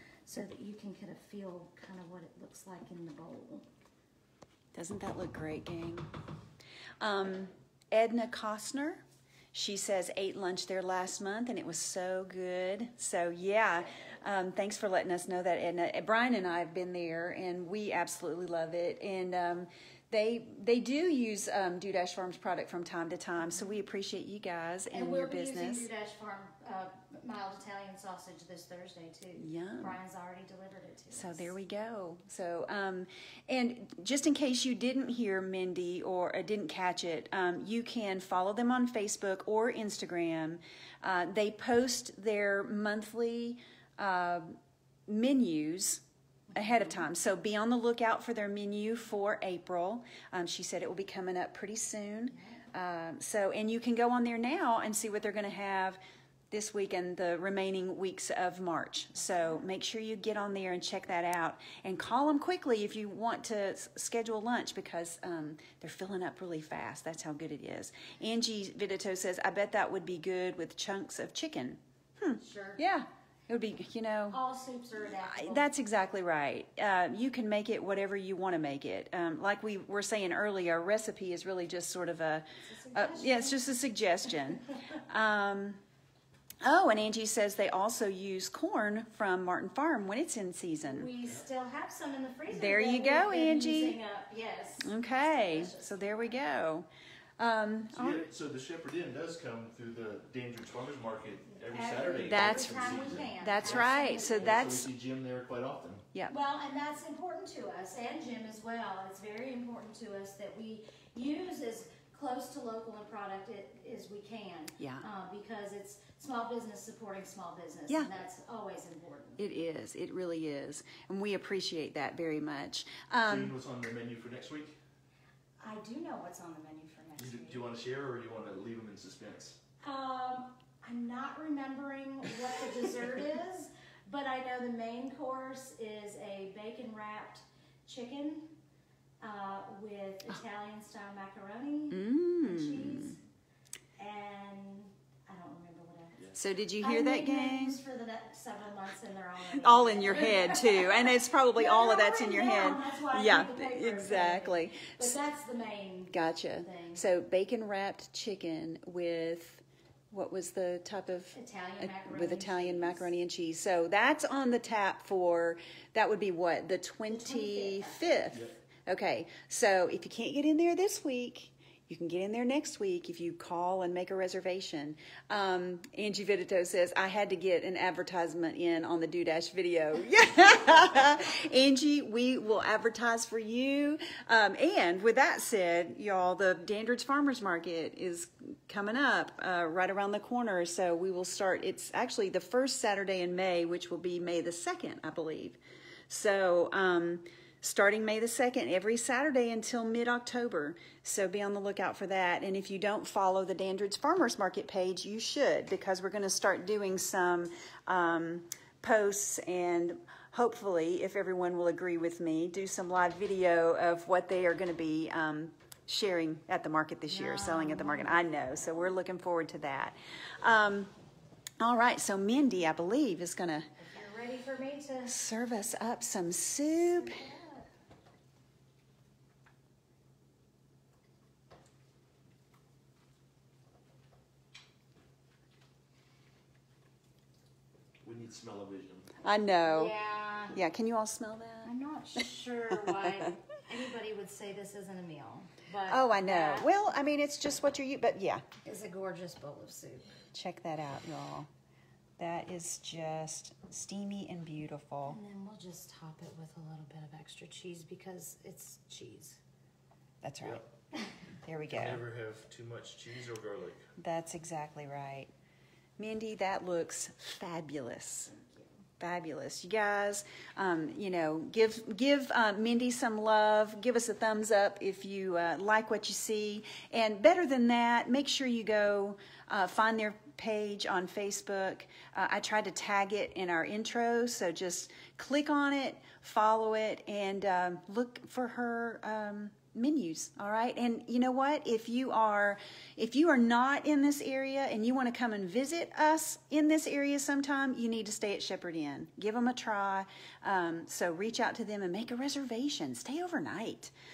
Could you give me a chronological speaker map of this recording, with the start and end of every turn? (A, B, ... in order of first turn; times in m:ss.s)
0:00.3-0:03.6 A
0:04.7-0:06.1 B
0:07.0-0:25.9 B
0:24.9-0:31.5 A
0:29.4-0:30.0 B
0:31.1-0:46.0 B
0:46.5-0:47.0 A
0:46.5-0:56.0 B
0:52.3-0:52.6 A
0:56.5-1:14.4 B
1:12.4-1:12.8 A
1:14.3-1:15.7 A
1:15.2-1:25.8 B
1:22.6-1:23.6 A
1:26.6-1:31.1 B
1:30.8-1:36.4 A
1:32.5-1:34.0 B
1:34.8-1:36.8 B
1:37.4-1:38.2 B
1:37.9-1:46.0 C
1:41.5-1:44.6 A
1:42.2-1:44.9 B
1:46.3-1:59.4 A
1:54.8-1:55.0 B
1:59.4-2:03.5 B
2:03.2-2:04.7 C
2:05.6-2:07.7 A
2:07.2-2:09.6 C
2:09.8-2:18.5 A
2:19.2-2:23.2 A
2:21.9-2:23.2 B
2:24.0-2:26.3 A
2:26.3-2:27.8 B
2:26.8-2:37.0 A
2:29.6-2:35.1 B
2:36.1-3:40.9 B
2:41.3-2:43.1 A
2:47.1-2:48.3 A
3:37.1-3:38.2 A
3:41.6-3:43.7 B
3:43.8-3:45.2 A
3:45.0-3:47.2 B
3:46.7-3:47.7 A
3:58.0-3:59.1 C
3:59.2-3:59.9 B
3:59.6-4:00.6 A
4:00.5-4:01.7 B
4:01.6-4:06.7 A
4:02.7-4:03.3 B
4:05.9-4:08.4 B
4:08.6-4:10.1 A
4:10.3-4:11.5 B
4:12.2-4:15.2 B
4:15.0-4:19.4 A
4:20.2-4:20.6 B
4:21.4-4:22.0 B
4:21.7-4:23.8 C
4:24.0-4:25.3 B
4:26.0-4:28.3 B
4:29.0-5:03.9 B